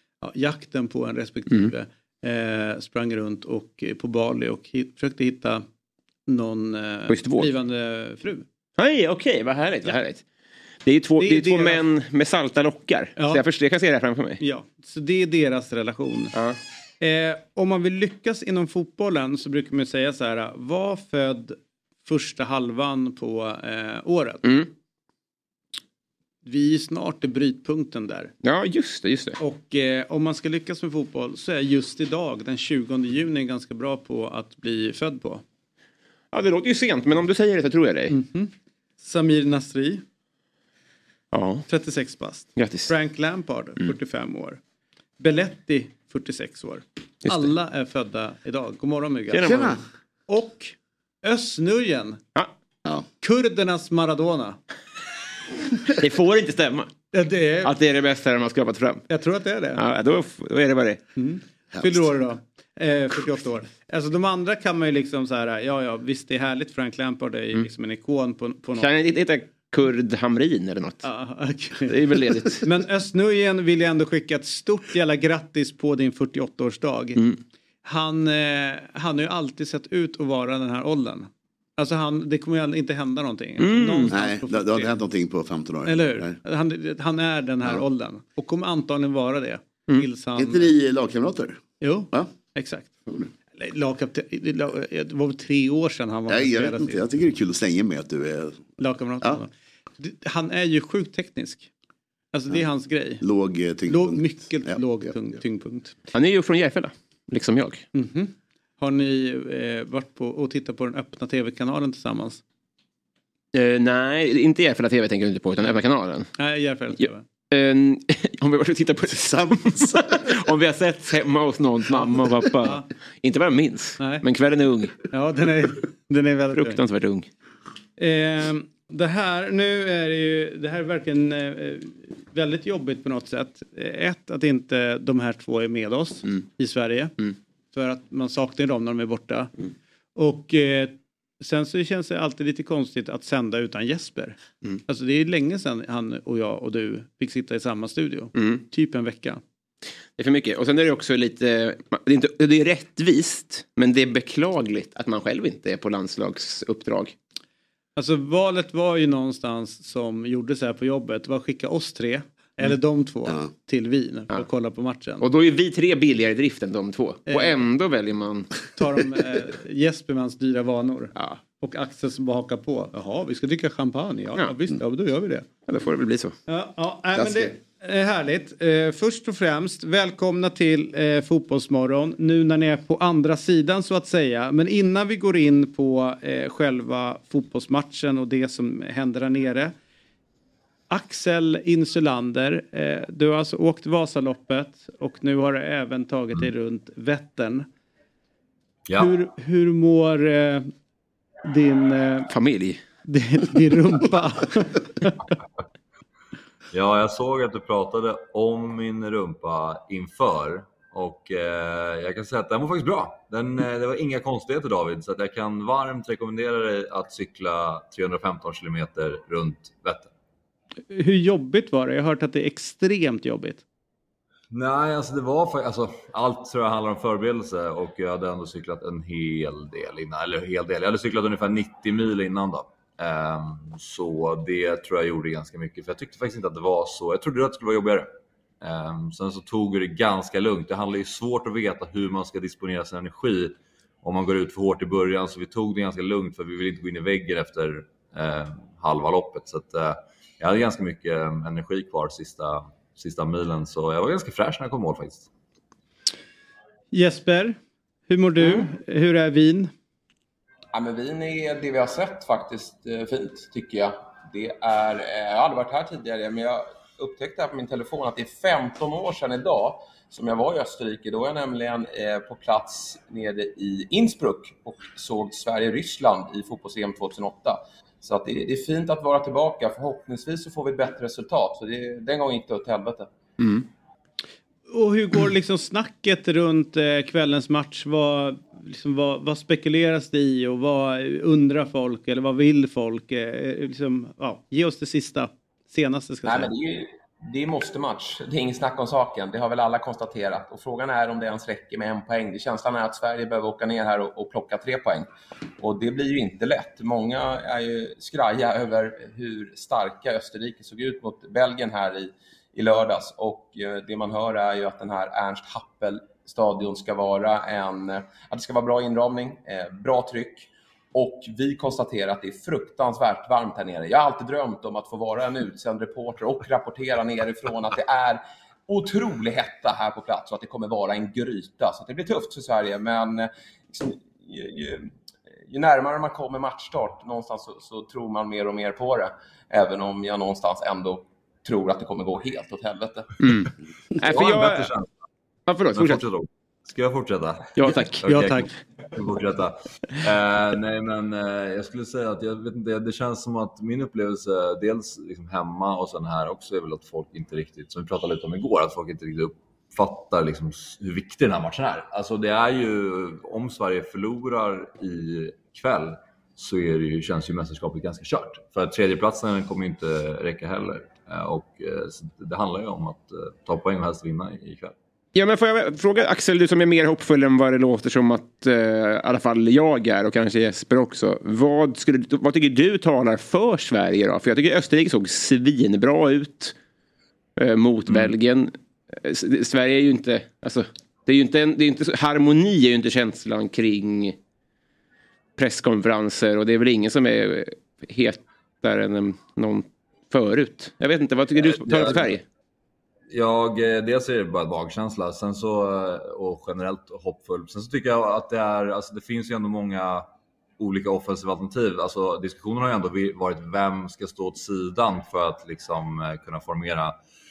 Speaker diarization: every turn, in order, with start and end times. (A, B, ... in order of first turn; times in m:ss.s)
0:00.2-0:05.6 A
0:06.3-0:08.5 A
0:07.1-0:07.5 B
0:08.8-0:10.2 B
0:10.8-0:14.4 B
0:11.2-0:11.8 A
0:13.2-0:13.4 A
0:14.4-0:16.3 A
0:17.0-0:24.5 A
0:26.4-0:28.3 A
0:28.4-0:29.4 B
0:29.4-0:35.4 A
0:36.3-0:38.2 B
0:38.1-0:40.0 A
0:41.3-0:41.7 B
0:41.7-0:44.6 A
0:42.6-0:42.9 B
0:45.2-0:49.4 A
0:49.3-0:49.8 B
0:49.4-0:49.8 C
0:50.3-0:52.2 A
0:53.2-0:54.6 A
0:55.9-0:56.9 B
0:57.1-0:57.7 A
0:57.6-0:59.1 B
0:59.1-0:59.8 A
0:59.8-1:01.0 B
1:01.2-1:08.9 A
1:01.7-1:02.1 C
1:08.8-1:11.0 B
1:11.0-1:11.9 A
1:11.9-1:12.6 B
1:12.6-1:17.2 A
1:17.8-1:24.9 A
1:23.6-1:24.1 B
1:24.1-1:26.4 C
1:25.8-1:30.7 A
1:30.4-1:31.6 C
1:31.8-1:32.9 A
1:33.6-1:37.0 A
1:36.3-1:39.4 C
1:38.8-1:41.7 A
1:42.3-1:43.2 A
1:43.2-1:45.1 C
1:43.9-1:46.0 A
1:46.1-1:47.8 B
1:47.9-1:52.4 A
1:53.5-1:56.3 B
1:56.4-1:57.2 A
1:57.5-2:05.0 B
1:59.2-2:00.2 C
2:05.1-2:06.8 A
2:06.5-2:07.3 B
2:08.0-2:17.2 A
2:17.7-2:19.5 A
2:20.2-2:29.4 A
2:28.4-2:28.6 B
2:30.2-2:37.2 B
2:38.0-2:45.2 A
2:45.2-2:48.5 B
2:47.3-2:47.6 A
2:48.8-2:55.5 A
2:55.7-2:56.4 B
2:56.5-3:09.7 A
2:57.2-2:57.5 C
3:10.9-3:17.7 A
3:18.9-3:19.2 D
3:19.0-3:20.7 A
3:21.4-3:22.3 A
3:22.3-3:22.8 B
3:23.1-3:25.2 A
3:26.7-3:40.1 D
3:40.9-3:43.6 A
3:44.5-3:58.1 D
3:58.6-4:15.3 D
4:16.9-4:17.6 A
4:18.1-4:19.7 A
4:20.7-4:43.1 E
4:44.7-4:56.5 A
4:56.2-5:05.1 E
5:05.6-5:34.9 E
5:35.5-5:43.1 E
5:43.2-5:43.5 B
5:44.0-5:44.9 D
5:44.0-5:44.7 B
5:45.5-5:46.0 B
5:45.7-6:14.8 D
5:47.6-5:48.0 B
5:48.1-5:48.5 A
6:15.2-6:26.5 B
6:27.4-6:34.2 B
6:35.4-6:42.2 B
6:41.4-6:42.2 D
6:43.1-6:50.1 D
6:50.6-6:57.0 D